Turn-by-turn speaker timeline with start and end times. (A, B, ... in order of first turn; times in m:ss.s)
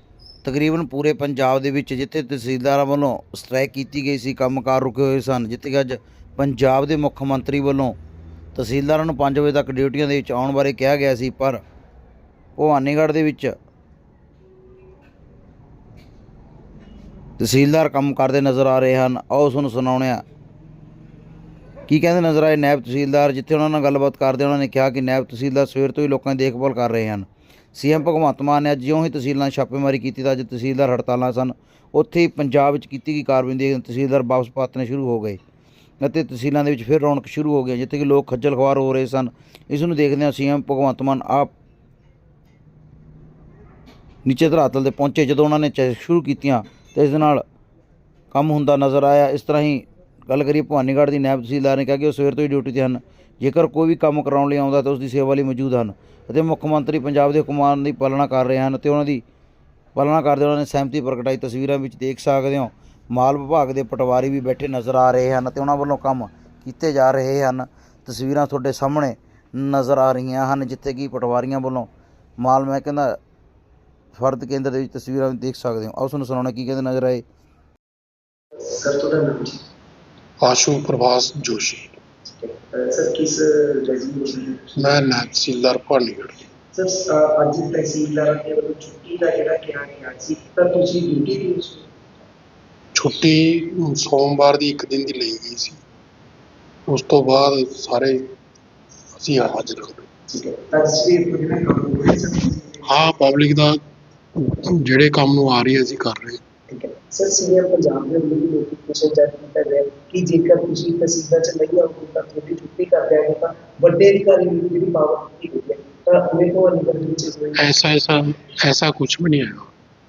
0:00.4-0:08.0 A
0:08.6-0:11.6 A
0:12.6-0:13.5 A
0:17.4-0:20.2 A
0:21.9-0:35.4 A
0:36.0-0:41.5 A
0:44.2-0:47.4 A
0:48.3-0:59.2 A
1:00.0-1:11.9 A
1:12.4-1:13.2 A
1:14.1-1:17.2 A
1:18.6-1:19.6 B
1:20.4-1:21.9 C
1:22.2-1:24.7 B
1:24.8-1:26.4 C
1:26.7-1:31.9 B
1:33.0-1:35.8 C
1:36.9-1:38.2 C
1:39.2-1:40.0 C
1:40.3-1:43.1 B
1:42.9-1:43.8 C
1:44.4-1:46.4 C
1:46.7-1:57.6 B
1:57.6-1:59.7 C